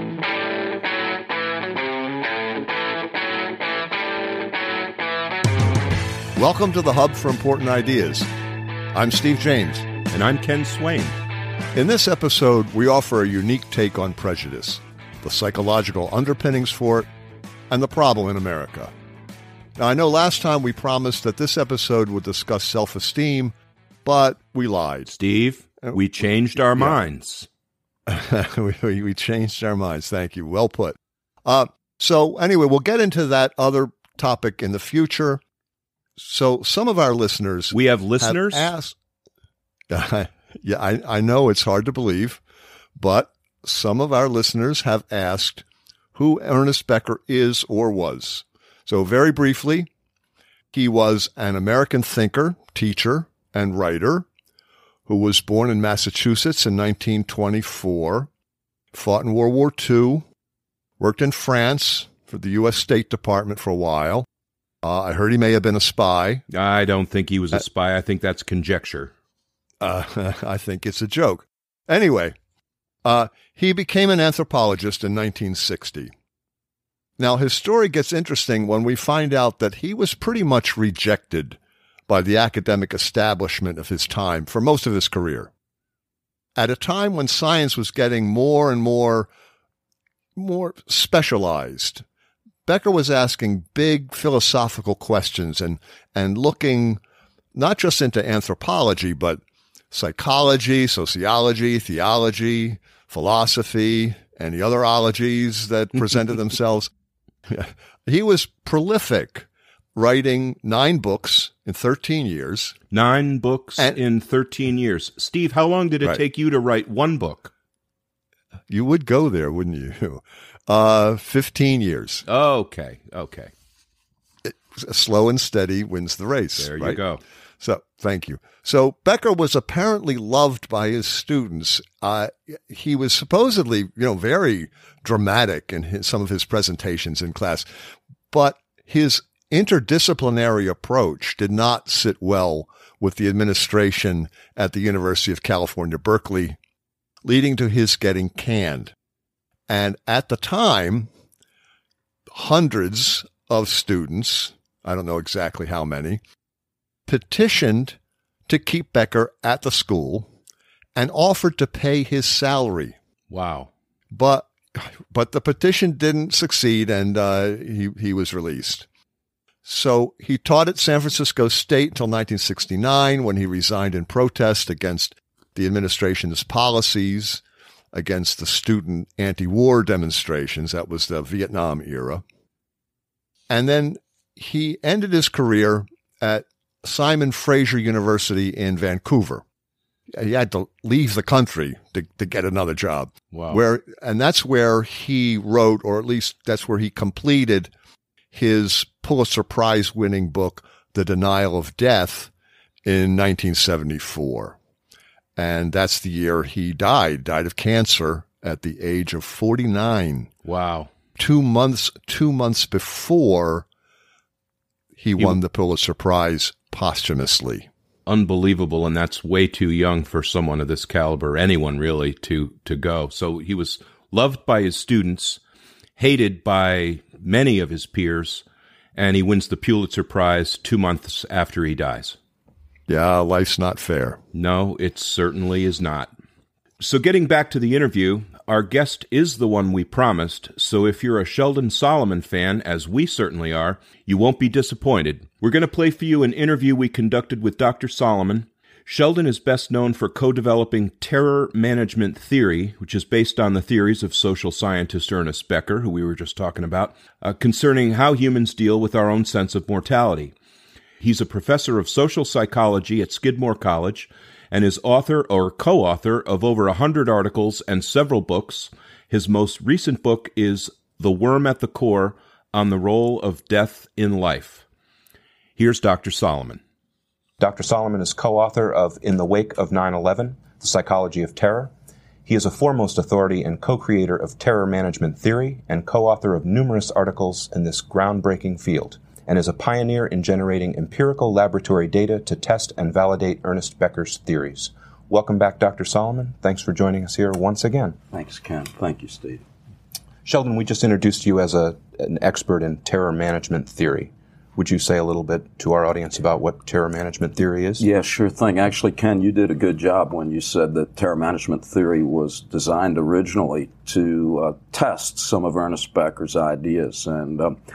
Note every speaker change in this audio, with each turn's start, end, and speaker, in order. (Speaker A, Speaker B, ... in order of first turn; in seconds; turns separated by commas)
Speaker A: 6.3-8.3, Speaker A: 8.9-9.9, Speaker B: 10.1-11.1, Speaker A: 11.7-17.1, Speaker A: 17.7-18.9, Speaker A: 19.8-25.1, Speaker B: 25.1-27.5, Speaker A: 28.1-35.4, Speaker A: 36.2-38.9, Speaker B: 37.7-38.7, Speaker A: 39.9-42.4, Speaker A: 43.0-49.9, Speaker A: 50.7-54.3, Speaker A: 55.1-58.3, Speaker A: 58.9-60.2, Speaker A: 61.0-64.2, Speaker A: 64.8-66.4, Speaker B: 66.5-69.1, Speaker A: 69.8-72.3, Speaker A: 73.0-76.1, Speaker A: 77.2-85.5, Speaker A: 86.5-89.3, Speaker A: 90.3-92.0, Speaker A: 92.6-97.0, Speaker A: 97.5-106.9, Speaker A: 107.5-112.8, Speaker B: 112.9-117.5, Speaker A: 118.7-122.2, Speaker B: 122.2-123.5, Speaker A: 124.4-127.0, Speaker B: 126.6-127.2, Speaker A: 127.6-137.7, Speaker A: 138.3-146.6, Speaker A: 147.2-148.9, Speaker A: 149.7-151.1, Speaker A: 152.3-156.2, Speaker A: 157.1-160.3, Speaker A: 160.9-162.9, Speaker B: 163.3-163.7, Speaker A: 164.1-168.8, Speaker A: 169.6-177.4, Speaker A: 177.9-182.2, Speaker A: 183.5-189.4, Speaker A: 190.1-197.7, Speaker B: 193.3-193.6, Speaker A: 198.3-202.3, Speaker A: 202.8-204.6, Speaker A: 205.3-210.3, Speaker B: 210.4-210.9, Speaker A: 211.2-213.7, Speaker A: 214.9-217.7, Speaker B: 218.1-225.4, Speaker B: 226.0-228.4, Speaker B: 228.9-232.2, Speaker A: 232.9-234.2, Speaker B: 234.3-236.1, Speaker B: 236.8-260.3, Speaker B: 261.0-274.6, Speaker B: 275.6-276.6, Speaker C: 277.4-281.7, Speaker C: 282.2-298.0, Speaker D: 298.1-299.4, Speaker C: 300.2-307.9, Speaker D: 307.8-317.6